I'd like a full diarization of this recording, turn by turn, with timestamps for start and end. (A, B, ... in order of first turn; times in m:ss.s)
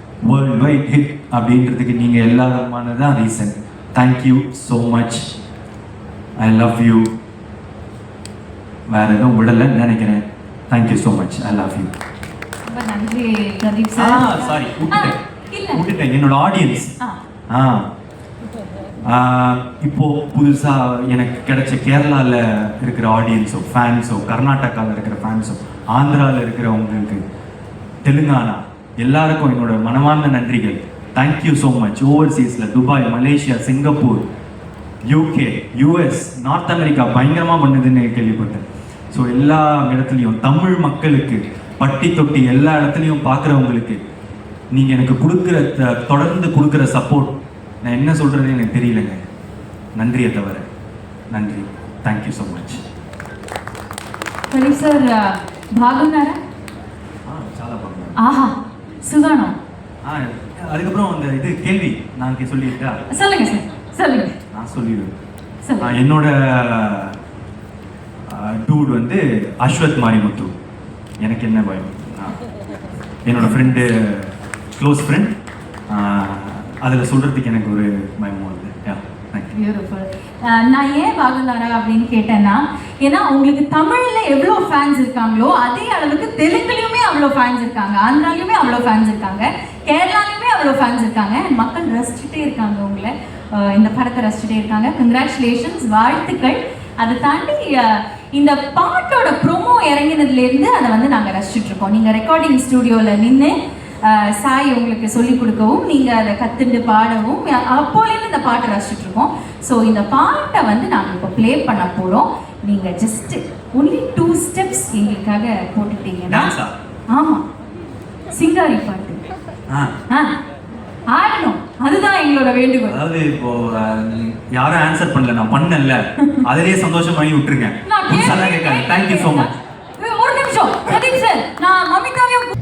0:00.2-0:05.3 A
0:06.4-0:07.1 A
0:08.9-0:11.9 A
0:12.7-0:15.8 B
0:14.0-0:15.2 A
0:15.7-0:16.9 A
0:17.5-0:17.9 A
0:19.0-0:27.2 A
0:28.0-0:34.2 A
0:35.1-0:44.0 A
0:44.7-0:49.2 A
0:50.0-0:50.7 A
0:51.3-0:52.8 A
0:54.5-0:56.4 B
0:57.2-0:58.2 A
0:58.2-0:59.6 B
1:00.0-1:03.0 A
1:03.1-1:04.3 B
1:04.5-1:05.1 A
1:05.6-1:05.9 B
1:05.8-1:07.2 A
1:08.3-1:10.5 A
1:11.2-1:12.4 A
1:13.2-1:15.4 A
1:15.9-1:19.5 A
1:19.5-1:56.5 B
1:56.3-1:56.7 A
1:57.1-1:57.4 B
1:58.3-1:59.2 B
1:59.7-2:00.0 A
2:00.1-2:00.4 B
2:01.1-2:03.0 B
2:02.9-2:09.5 A
2:07.8-2:12.5 B